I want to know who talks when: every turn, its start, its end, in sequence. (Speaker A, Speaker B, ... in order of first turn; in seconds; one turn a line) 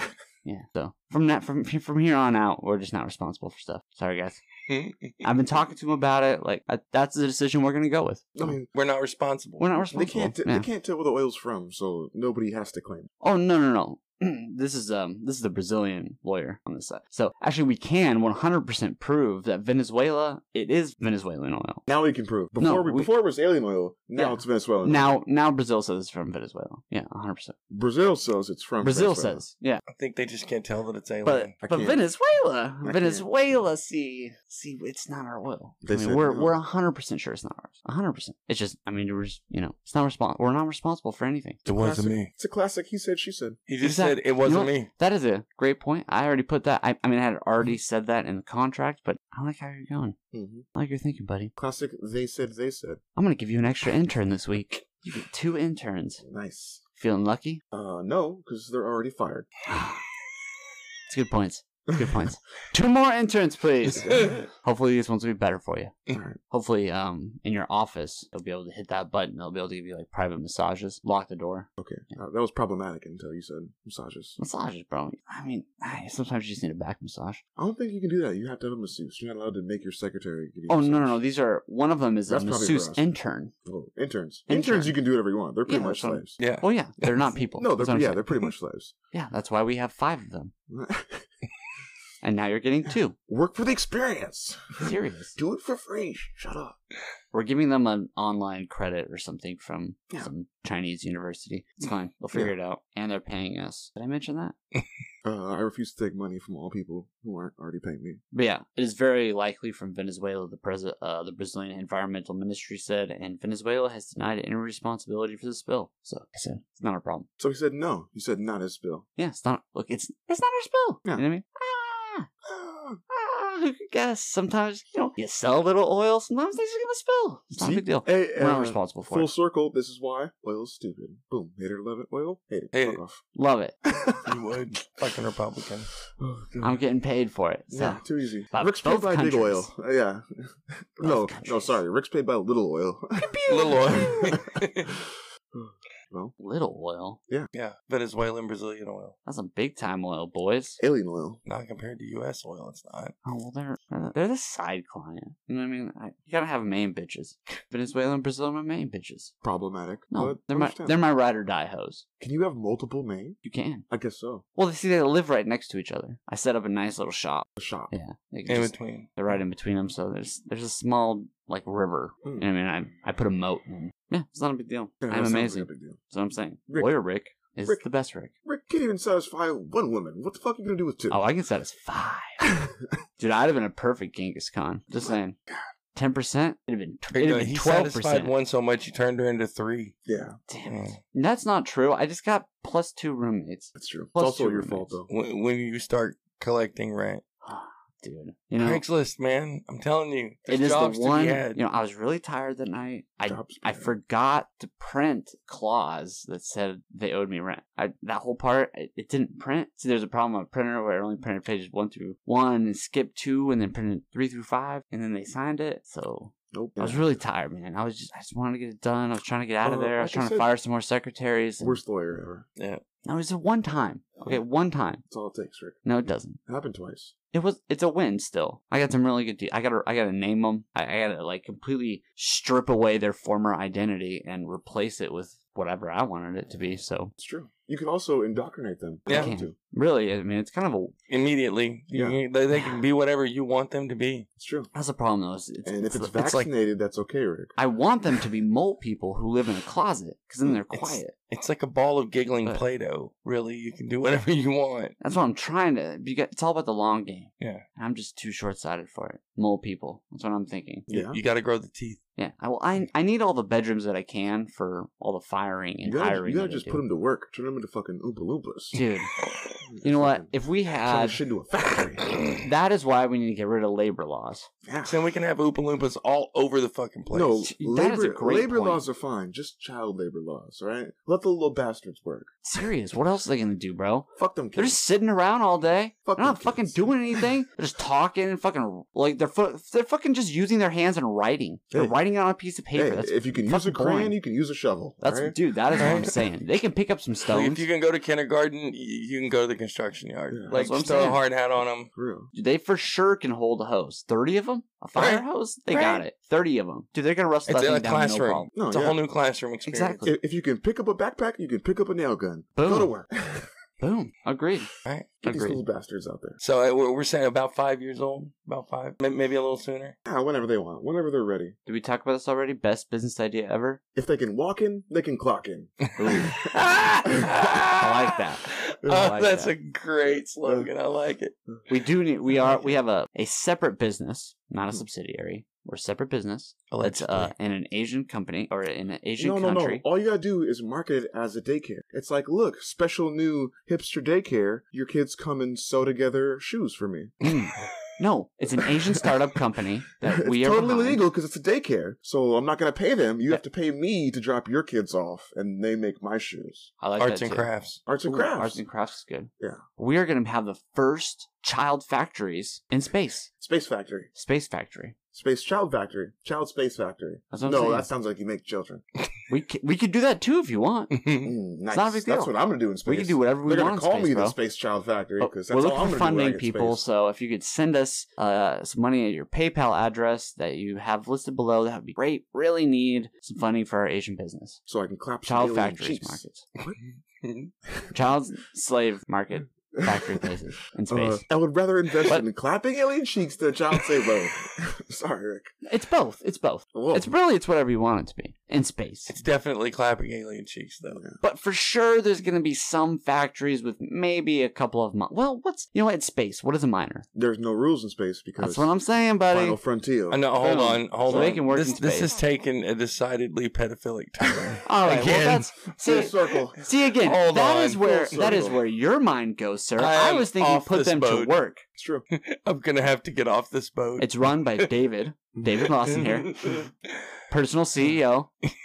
Speaker A: 0.4-4.4
Speaker B: 4.7-5.3
Speaker A: 5.2-8.5
Speaker C: 8.3-8.7
Speaker B: 8.7-9.7
Speaker A: 9.6-10.7
Speaker C: 9.9-13.1
Speaker A: 13.2-21.9
Speaker C: 21.9-25.1
Speaker A: 22.6-23.1
Speaker A: 24.1-27.6
Speaker C: 27.7-29.4
Speaker A: 28.8-29.8
Speaker B: 29.9-31.5
Speaker A: 31.2-41.6
Speaker C: 31.6-32.0
Speaker C: 32.8-33.2
Speaker C: 35.8-36.5
Speaker B: 41.6-42.3
Speaker C: 41.7-43.6
Speaker B: 43.7-44.9
Speaker A: 43.8-50.2
Speaker C: 50.3-50.6
Speaker A: 50.7-51.5
Speaker C: 51.6-53.0
Speaker A: 53.1-56.2
Speaker C: 56.2-56.8
Speaker A: 57.0-57.6
Speaker C: 57.7-59.5
Speaker A: 59.7-60.0
Speaker A: 61.1-65.9
Speaker C: 61.9-62.2
Speaker C: 64.0-64.3
Speaker B: 64.0-64.4
Speaker C: 66.1-66.4
Speaker A: 66.5-71.7
Speaker C: 71.8-74.4
Speaker A: 74.4-77.4
Speaker C: 77.6-81.2
Speaker A: 80.7-83.5
Speaker C: 82.3-83.0
Speaker C: 83.7-86.4
Speaker A: 84.5-85.0
Speaker A: 85.7-88.3
Speaker B: 86.4-87.2
Speaker C: 87.5-88.9
Speaker A: 89.1-90.5
Speaker C: 90.7-91.3
Speaker A: 92.2-93.2
Speaker C: 93.3-96.8
Speaker A: 94.8-95.4
Speaker A: 97.3-104.5
Speaker C: 105.2-108.2
Speaker A: 108.3-117.3
Speaker C: 117.4-119.0
Speaker A: 119.2-122.3
Speaker C: 122.4-123.0
Speaker A: 123.1-129.3
Speaker C: 127.5-133.2
Speaker B: 132.7-133.0
Speaker A: 133.3-133.7
Speaker C: 133.8-134.3
Speaker B: 134.2-135.9
Speaker C: 136.2-136.6
Speaker A: 136.6-139.7
Speaker C: 137.7-146.3
Speaker A: 141.0-141.8
Speaker A: 143.2-144.4
Speaker B: 143.5-144.9
Speaker A: 146.4-147.2
Speaker B: 147.5-149.2
Speaker A: 149.2-150.8
Speaker C: 150.8-151.4
Speaker B: 151.4-153.1
Speaker A: 153.2-159.3
Speaker C: 159.4-161.0
Speaker A: 160.1-162.0
Speaker C: 162.2-163.4
Speaker A: 163.4-163.8
Speaker C: 163.9-164.4
Speaker A: 164.6-178.3
Speaker C: 167.6-167.9
Speaker B: 168.5-169.1
Speaker C: 175.0-176.0
Speaker C: 178.4-181.2
Speaker A: 181.1-182.4
Speaker C: 182.4-182.9
Speaker A: 183.2-185.4
Speaker A: 185.9-188.3
Speaker B: 187.1-189.9
Speaker C: 190.1-190.4
Speaker A: 190.5-195.0
Speaker B: 190.7-191.0
Speaker C: 193.7-195.1
Speaker B: 195.1-197.2
Speaker A: 197.4-198.8
Speaker B: 198.6-201.6
Speaker A: 200.5-221.8
Speaker C: 203.2-203.9
Speaker C: 216.5-217.1
Speaker C: 219.6-220.5
Speaker C: 221.6-222.4
Speaker A: 223.0-225.0
Speaker C: 225.1-225.8
Speaker A: 225.8-226.4
Speaker C: 226.5-227.1
Speaker A: 227.3-237.1
Speaker C: 237.2-239.5
Speaker B: 239.1-239.3
Speaker A: 239.1-240.9
Speaker B: 241.1-244.3
Speaker C: 241.9-242.2
Speaker C: 244.4-244.7
Speaker A: 244.7-246.2
Speaker C: 245.6-247.5
Speaker B: 246.2-246.5
Speaker A: 247.6-251.1
Speaker B: 250.7-254.9
Speaker A: 255.0-260.9
Speaker B: 260.9-262.0
Speaker C: 260.9-261.2
Speaker A: 262.2-266.8
Speaker C: 265.8-268.8
Speaker A: 268.7-269.1
Speaker C: 269.6-272.1
Speaker A: 269.8-271.2
Speaker A: 272.4-274.5
Speaker C: 274.6-275.0
Speaker B: 274.9-277.4
Speaker C: 277.1-282.3
Speaker A: 277.4-278.8
Speaker A: 282.4-294.1
Speaker C: 284.1-284.8
Speaker C: 286.1-287.3
Speaker C: 291.7-291.9
Speaker C: 292.7-296.3
Speaker A: 295.0-297.6
Speaker B: 295.8-296.1
Speaker B: 297.3-301.9
Speaker C: 300.3-300.6
Speaker A: 300.5-301.2
Speaker C: 301.9-302.3
Speaker A: 302.3-308.5
Speaker B: 304.9-306.0
Speaker B: 307.5-310.0
Speaker C: 308.5-309.0
Speaker A: 309.6-310.1
Speaker C: 310.0-313.5
Speaker A: 312.6-312.9
Speaker A: 313.8-314.7
Speaker B: 314.8-315.1
Speaker A: 315.2-315.6
Speaker C: 315.2-316.4
Speaker B: 316.4-319.9
Speaker C: 320.1-321.6
Speaker A: 321.6-323.8
Speaker C: 323.9-326.5
Speaker A: 326.0-326.3
Speaker B: 326.0-331.3
Speaker C: 327.1-327.5
Speaker A: 327.8-329.5
Speaker C: 328.8-329.1
Speaker C: 330.4-330.7
Speaker A: 331.7-339.8
Speaker C: 332.3-332.7
Speaker B: 336.7-337.3
Speaker C: 339.2-347.2
Speaker A: 347.2-351.0
Speaker C: 350.0-356.7
Speaker A: 356.8-357.5
Speaker B: 357.0-357.8
Speaker C: 357.9-358.6
Speaker A: 358.0-363.3
Speaker C: 363.4-364.1
Speaker A: 364.1-364.9
Speaker C: 365.1-368.8
Speaker A: 367.3-367.9
Speaker A: 369.3-370.9
Speaker B: 370.9-371.3
Speaker C: 371.2-376.8
Speaker A: 371.7-372.3
Speaker A: 372.8-374.4
Speaker A: 375.2-384.6
Speaker C: 384.7-386.8
Speaker A: 385.2-386.4
Speaker B: 387.2-387.5
Speaker A: 387.9-391.2
Speaker C: 389.7-390.3
Speaker C: 390.9-395.5
Speaker A: 395.6-399.1
Speaker C: 396.7-397.1
Speaker B: 399.1-401.0
Speaker C: 400.9-401.2
Speaker A: 401.2-407.1
Speaker C: 407.1-408.7
Speaker A: 408.4-409.6
Speaker C: 409.3-410.2
Speaker B: 410.1-416.1
Speaker A: 410.4-412.1
Speaker C: 411.0-411.4
Speaker A: 414.6-421.6
Speaker C: 415.8-416.6
Speaker B: 417.0-418.5
Speaker C: 417.8-418.6
Speaker B: 419.8-421.4
Speaker C: 421.8-422.1
Speaker B: 422.1-424.7
Speaker A: 424.0-426.6
Speaker B: 425.8-426.7
Speaker A: 427.3-428.3